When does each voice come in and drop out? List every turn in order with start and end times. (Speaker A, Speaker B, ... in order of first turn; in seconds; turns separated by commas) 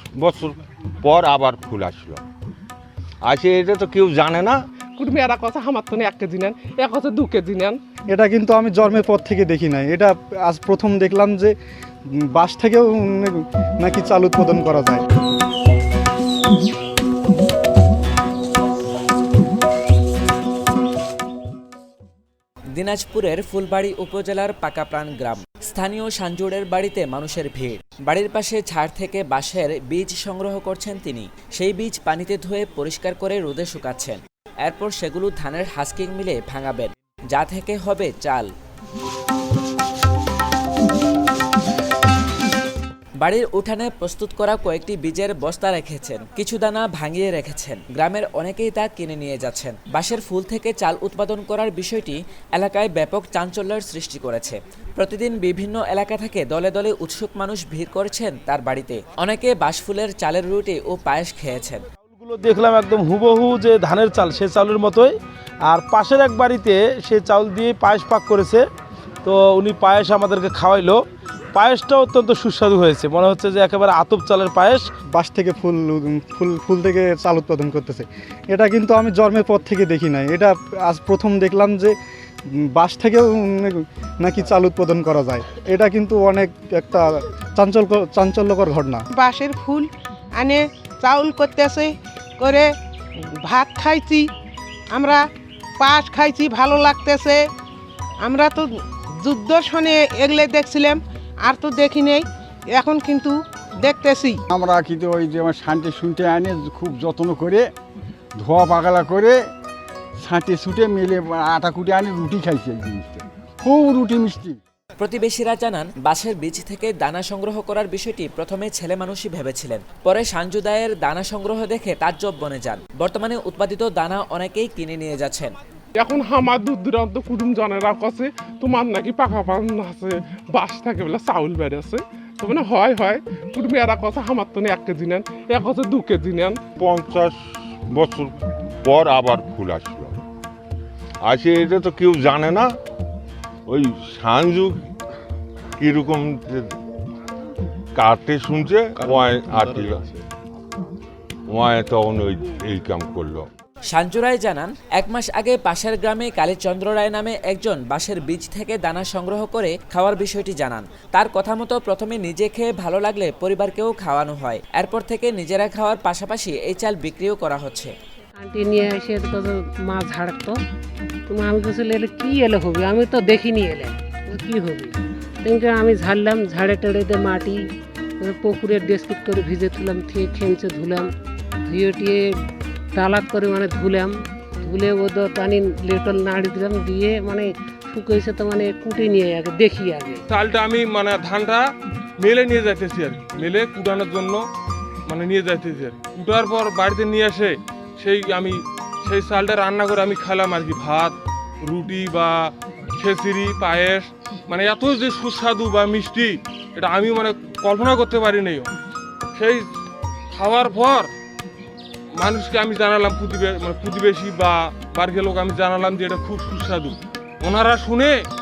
Speaker A: 0.2-2.2, Speaker A: 3.2-4.6, Speaker B: 5.0-7.8, Speaker C: 8.1-11.5, Speaker C: 12.1-15.0, Speaker D: 22.7-38.5, Speaker D: 43.2-61.8, Speaker E: 62.1-65.2, Speaker E: 65.7-68.6, Speaker E: 69.2-74.9, Speaker C: 75.1-81.9, Speaker C: 82.5-89.0, Speaker F: 89.1-92.7, Speaker F: 93.4-94.2, Speaker F: 94.9-95.2, Speaker F: 95.8-97.4, Speaker F: 98.2-104.4, Speaker G: 104.5-107.7, Speaker G: 108.4-109.4, Speaker G: 110.2-114.6, Speaker D: 115.0-125.5, Speaker B: 126.0-136.6, Speaker A: 136.8-137.3, Speaker A: 137.9-140.2, Speaker A: 141.2-142.8, Speaker A: 143.7-144.8, Speaker A: 145.8-146.7, Speaker A: 147.9-150.0, Speaker A: 151.5-153.5, Speaker D: 153.9-167.9, Speaker H: 168.4-170.6, Speaker H: 171.3-177.6, Speaker H: 178.2-181.1, Speaker H: 181.7-182.2, Speaker H: 182.9-190.2, Speaker I: 190.3-194.4, Speaker I: 195.1-208.7, Speaker I: 209.3-209.7, Speaker I: 210.3-211.1, Speaker I: 212.1-218.1